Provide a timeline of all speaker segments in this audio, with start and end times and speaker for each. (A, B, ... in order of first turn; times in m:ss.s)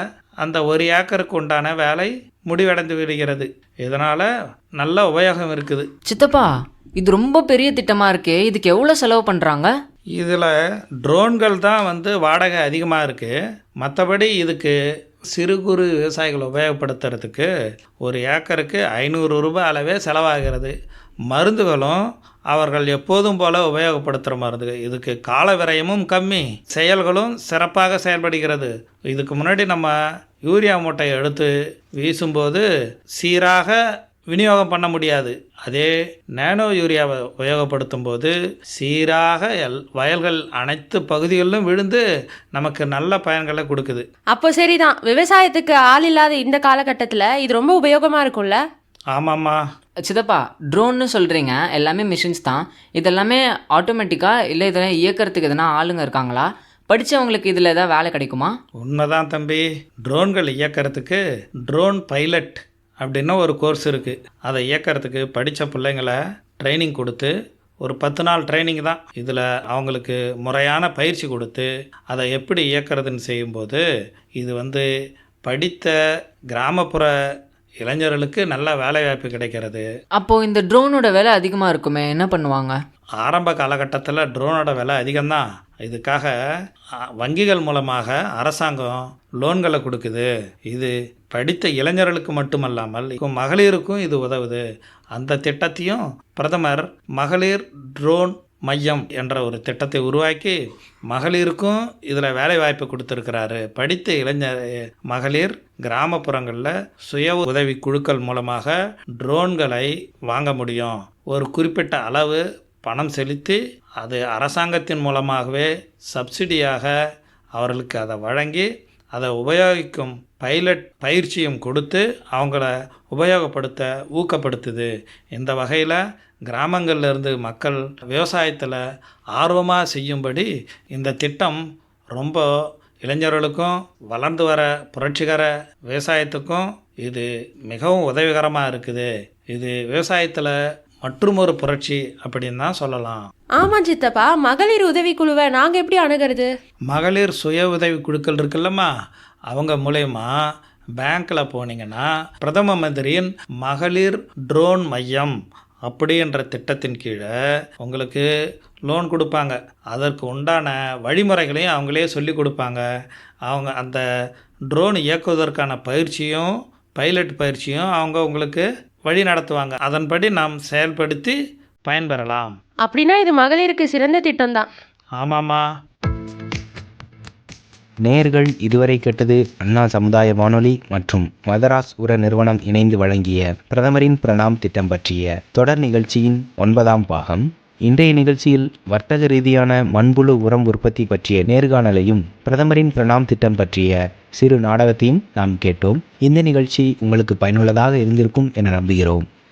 0:00.4-0:05.9 A
0:06.1-0:09.7 B
0:10.2-0:14.8 A
0:15.3-0:17.5 A
0:18.0-0:20.7 A
0:21.3-0:32.6 A
0:33.2-0:33.8 A
0:34.3-0:42.0 A
0:42.6-0:44.1 A
0:44.3-0:48.6 C
0:49.1-0:49.6 A
0:50.0-0:58.6 B
0:58.8-1:07.3 A
1:07.8-1:13.8 A
1:14.4-1:14.9 A
1:15.4-1:16.0 A
1:16.5-1:17.1 A
1:17.8-1:19.9 A
1:20.2-1:22.8 B
1:23.2-1:26.4 A
1:27.2-1:34.6 A
1:35.1-1:40.6 A
1:41.1-1:56.9 A
1:57.6-2:08.8 A
2:09.4-2:11.6 A
2:12.2-2:12.5 A
2:13.0-2:23.3 A
2:23.6-2:26.5 C
2:26.9-2:28.9 A
2:29.5-2:30.3 A
2:31.0-2:35.4 A
2:35.9-2:37.3 A
2:37.8-2:38.3 A
2:38.9-2:42.9 A
2:43.5-2:44.0 A
2:44.7-2:52.6 A
2:52.8-2:54.7 C
2:55.2-2:55.7 A
2:58.0-3:19.2 D